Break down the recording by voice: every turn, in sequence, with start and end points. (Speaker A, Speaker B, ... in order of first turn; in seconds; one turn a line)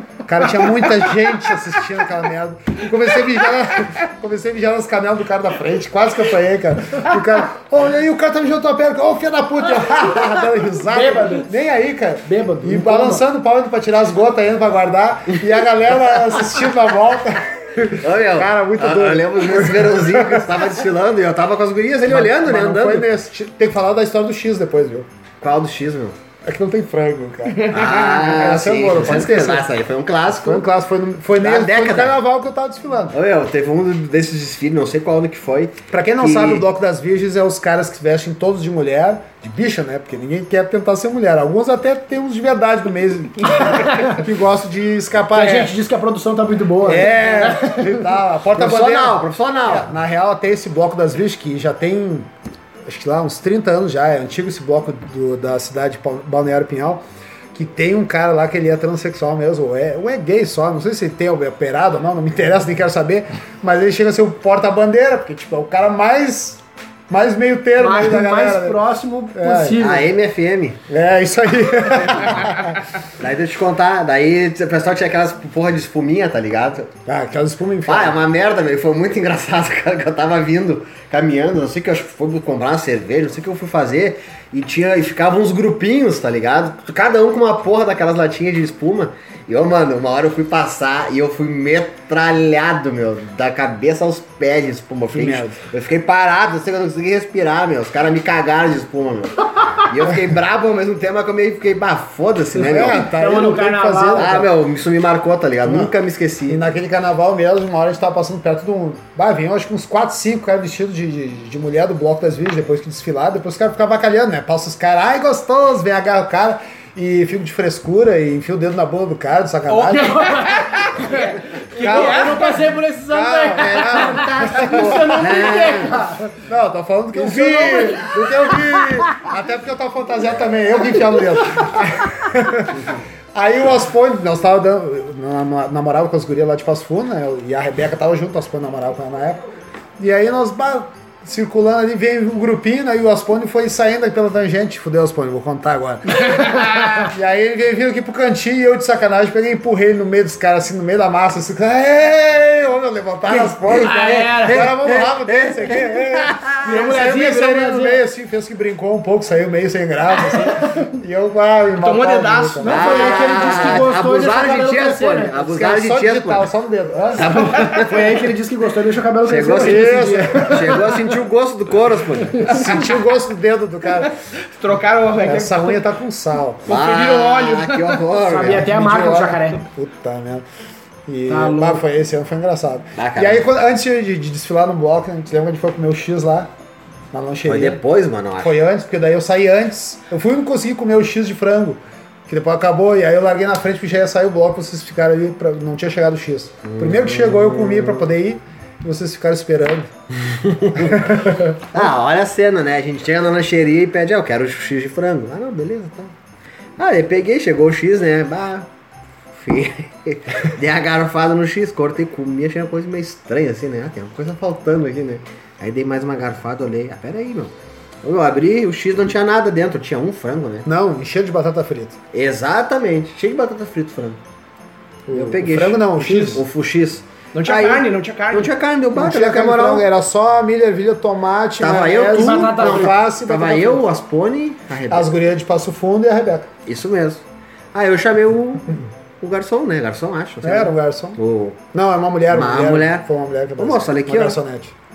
Speaker A: 0.2-20.8
Speaker B: 10.9-11.5
Speaker B: 12.2-13.2
Speaker C: 18.0-23.1
Speaker A: 22.1-25.1
Speaker C: 25.4-26.1
Speaker A: 26.4-29.7
Speaker D: 27.5-27.8
Speaker C: 27.7-30.6
Speaker A: 30.3-33.1
Speaker C: 31.3-32.2
Speaker C: 33.1-36.6
Speaker A: 35.9-45.7
Speaker B: 43.8-44.1
Speaker B: 45.3-48.0
Speaker A: 46.8-52.3
Speaker C: 48.5-49.9
Speaker A: 52.9-57.0
Speaker A: 57.5-68.8
Speaker B: 67.8-70.1
Speaker A: 69.3-69.9
Speaker C: 69.8-70.8
Speaker A: 70.9-72.8
Speaker C: 73.2-76.9
Speaker A: 77.0-78.2
Speaker C: 77.8-103.1
Speaker A: 95.1-95.6
Speaker B: 102.5-104.5
Speaker A: 102.6-104.5
Speaker C: 104.1-106.6
Speaker A: 105.6-105.9
Speaker A: 106.5-120.2
Speaker D: 119.7-122.7
Speaker B: 119.9-126.4
Speaker A: 121.8-122.5
Speaker A: 123.1-125.5
Speaker C: 123.6-126.0
Speaker A: 126.5-139.4
Speaker B: 127.1-129.0
Speaker A: 140.0-163.8
Speaker B: 146.4-147.0
Speaker B: 153.3-154.7
Speaker C: 153.7-156.9
Speaker B: 156.6-158.0
Speaker D: 161.8-163.4
Speaker B: 162.6-165.4
Speaker C: 162.6-166.5
Speaker A: 165.4-167.4
Speaker C: 167.1-168.2
Speaker B: 167.6-170.9
Speaker C: 169.2-172.6
Speaker A: 169.6-171.0
Speaker A: 172.5-174.1
Speaker D: 174.1-175.8
Speaker A: 175.2-176.7
Speaker D: 176.7-178.0
Speaker C: 176.7-178.7
Speaker B: 178.2-179.6
Speaker A: 178.4-180.4
Speaker A: 181.1-186.5
Speaker B: 181.3-181.8
Speaker C: 182.9-183.5
Speaker A: 187.1-187.8
Speaker C: 187.4-188.6
Speaker A: 188.4-199.9
Speaker C: 196.6-198.1
Speaker C: 200.2-201.1
Speaker A: 200.8-201.9
Speaker C: 201.7-206.1
Speaker C: 206.8-208.7
Speaker C: 209.3-220.7
Speaker A: 220.6-222.0
Speaker C: 222.1-224.2
Speaker A: 225.1-226.4
Speaker C: 225.1-229.8
Speaker D: 227.3-228.5
Speaker A: 228.9-233.8
Speaker C: 231.6-235.1
Speaker B: 232.1-233.0
Speaker A: 234.9-236.5
Speaker C: 236.7-237.2
Speaker C: 237.7-241.6
Speaker A: 240.4-241.2
Speaker A: 241.7-244.7
Speaker C: 242.3-243.1
Speaker C: 243.6-244.4